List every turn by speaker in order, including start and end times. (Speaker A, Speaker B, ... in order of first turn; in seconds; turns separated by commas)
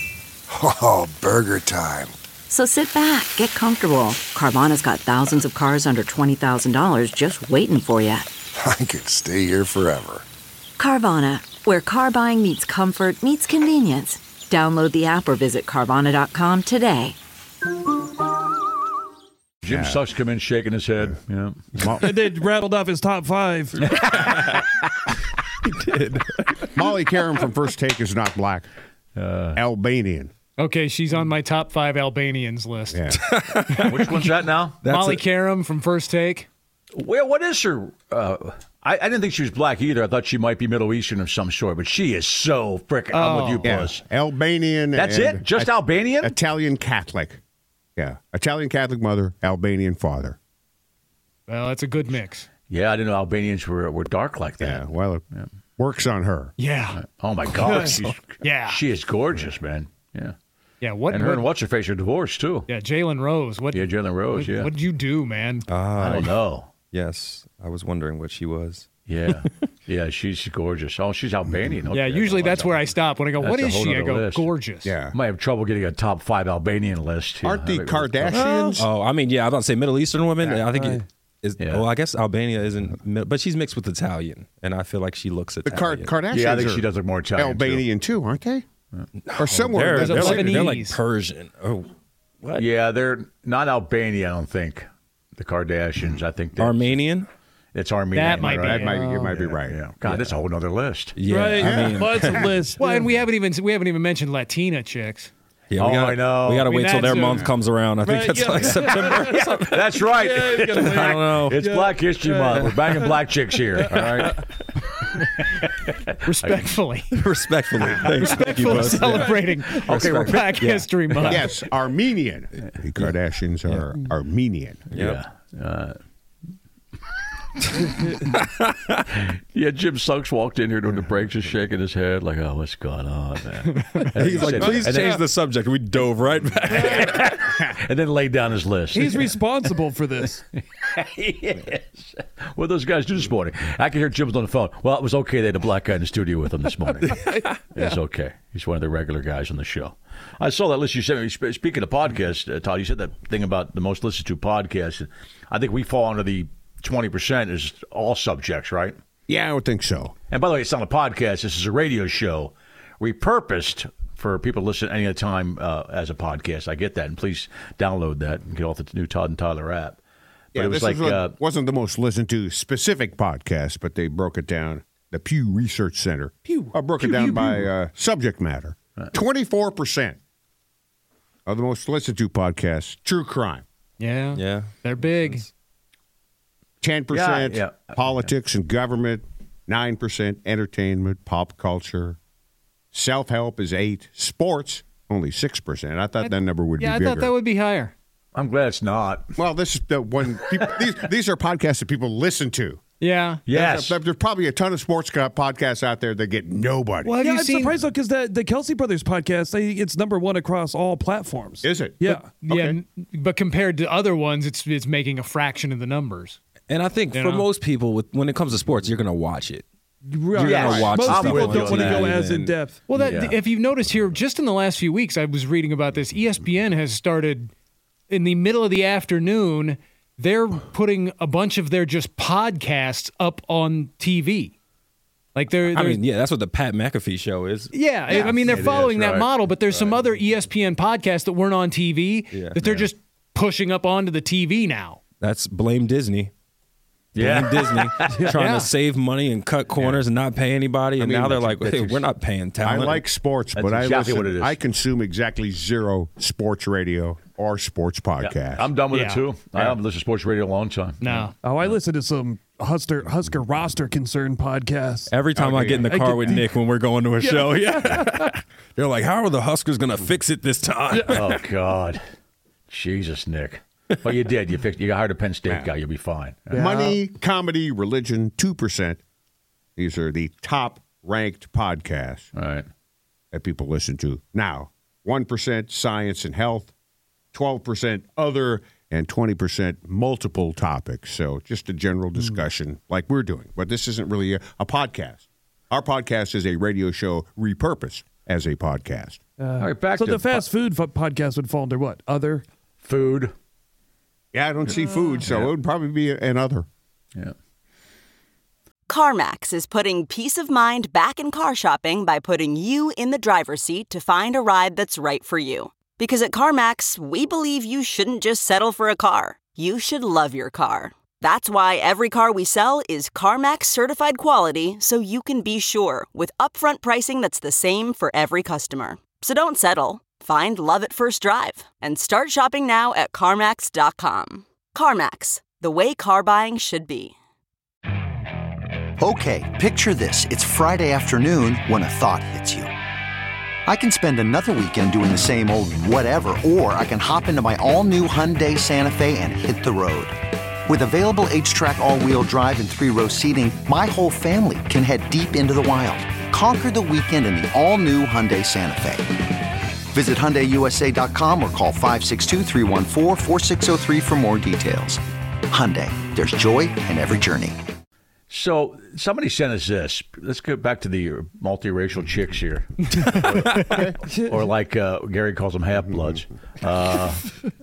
Speaker A: 0.5-2.1, Speaker B: 2.5-8.3, Speaker A: 8.6-10.2, Speaker B: 10.8-17.2, Speaker C: 19.6-22.0, Speaker D: 19.7-20.0, Speaker D: 21.7-22.1, Speaker E: 21.9-23.9, Speaker F: 25.6-26.7, Speaker D: 26.7-28.7, Speaker C: 29.1-29.6, Speaker D: 29.5-30.3, Speaker G: 30.6-33.2, Speaker D: 32.9-33.2, Speaker F: 33.3-34.3, Speaker C: 33.8-34.8, Speaker F: 34.8-35.2, Speaker G: 34.8-36.5, Speaker C: 36.9-44.0, Speaker G: 43.1-43.7, Speaker D: 43.6-47.4, Speaker C: 44.9-46.3, Speaker D: 48.0-50.4, Speaker G: 51.5-52.5, Speaker C: 52.7-55.5, Speaker D: 54.6-55.2, Speaker D: 55.8-56.5, Speaker G: 56.6-57.0, Speaker C: 56.9-60.3, Speaker G: 57.6-58.8, Speaker G: 60.8-61.5, Speaker C: 61.1-62.7, Speaker G: 62.7-65.7, Speaker C: 63.7-64.7, Speaker F: 65.7-66.4, Speaker C: 66.0-66.7, Speaker F: 66.9-69.5, Speaker C: 69.1-74.5, Speaker G: 71.9-74.9, Speaker D: 74.8-75.1, Speaker C: 75.1-78.4, Speaker D: 77.4-78.8, Speaker E: 78.3-78.8, Speaker F: 78.7-86.1, Speaker D: 80.4-80.6, Speaker E: 80.7-81.0, Speaker C: 81.6-81.9, Speaker D: 85.6-88.6, Speaker C: 86.3-87.9, Speaker F: 89.3-91.9, Speaker D: 89.4-90.7, Speaker G: 90.0-91.0, Speaker F: 92.4-92.7, Speaker C: 92.6-97.0, Speaker F: 96.6-97.3, Speaker C: 97.7-101.2, Speaker G: 98.1-99.4, Speaker D: 98.4-99.9, Speaker F: 101.1-102.5, Speaker E: 101.3-103.1, Speaker D: 101.6-102.5, Speaker G: 102.8-105.3, Speaker F: 105.7-109.7, Speaker C: 105.8-106.7, Speaker G: 106.6-107.5, Speaker E: 108.0-113.1, Speaker C: 109.2-114.4, Speaker F: 110.7-111.6, Speaker E: 113.9-114.4, Speaker C: 115.0-116.6, Speaker G: 116.2-117.1, Speaker F: 117.1-121.3, Speaker G: 118.0-121.5, Speaker C: 119.0-120.6, Speaker D: 121.2-124.8, Speaker C: 124.9-125.9, Speaker F: 124.9-125.2, Speaker F: 128.3-129.0, Speaker C: 129.2-135.2, Speaker F: 134.1-137.2, Speaker E: 134.6-135.1, Speaker E: 136.7-137.0, Speaker C: 136.7-139.4, Speaker E: 138.9-140.4, Speaker C: 140.2-159.0, Speaker E: 146.9-148.0, Speaker D: 159.3-160.1, Speaker C: 160.3-170.0, Speaker C: 170.5-171.3, Speaker D: 170.5-180.2, Speaker C: 177.0-177.7, Speaker D: 181.4-183.6, Speaker G: 184.0-185.4, Speaker F: 184.3-185.4, Speaker D: 186.8-192.2, Speaker C: 187.1-188.3, Speaker D: 192.9-197.3, Speaker G: 196.2-197.9, Speaker C: 198.3-199.3, Speaker D: 199.4-202.8, Speaker G: 203.0-203.4, Speaker C: 203.5-204.0, Speaker D: 203.5-207.1, Speaker G: 207.0-207.8, Speaker E: 207.2-212.3, Speaker D: 211.6-212.8, Speaker G: 212.0-216.4, Speaker F: 216.7-219.6, Speaker G: 217.1-217.5, Speaker E: 220.1-222.8, Speaker C: 220.3-222.2, Speaker F: 220.3-222.5, Speaker G: 222.9-227.5, Speaker C: 222.9-223.4, Speaker G: 228.1-234.5, Speaker G: 235.3-236.0, Speaker F: 235.7-237.7, Speaker G: 237.7-245.0, Speaker C: 238.1-240.0, Speaker F: 242.3-242.9, Speaker F: 245.2-246.3, Speaker C: 247.1-248.3, Speaker F: 247.1-253.0, Speaker G: 248.3-248.7, Speaker C: 249.8-250.0, Speaker D: 251.0-251.5, Speaker C: 251.5-252.0, Speaker D: 252.6-258.7, Speaker C: 253.5-254.6, Speaker C: 258.2-261.8, Speaker G: 258.9-259.2, Speaker G: 261.0-261.3, Speaker E: 261.4-266.5, Speaker F: 265.1-271.4, Speaker E: 267.2-268.1, Speaker E: 270.9-271.3, Speaker C: 271.1-272.0, Speaker C: 272.7-276.6, Speaker D: 275.4-275.7, Speaker E: 276.5-277.0, Speaker D: 276.5-279.0, Speaker D: 279.8-282.3, Speaker C: 282.3-282.6, Speaker D: 283.3-286.7, Speaker D: 287.3-299.2, Speaker E: 299.4-302.4, Speaker C: 299.6-300.5, Speaker C: 302.8-303.3, Speaker D: 304.3-306.6, Speaker C: 305.2-305.5, Speaker H: 308.9-337.1, Speaker I: 339.0-342.7, Speaker I: 343.7-350.1, Speaker I: 350.7-359.0, Speaker I: 359.9-367.5, Speaker C: 368.3-377.3, Speaker F: 372.9-373.8, Speaker D: 373.6-373.9, Speaker E: 374.1-374.4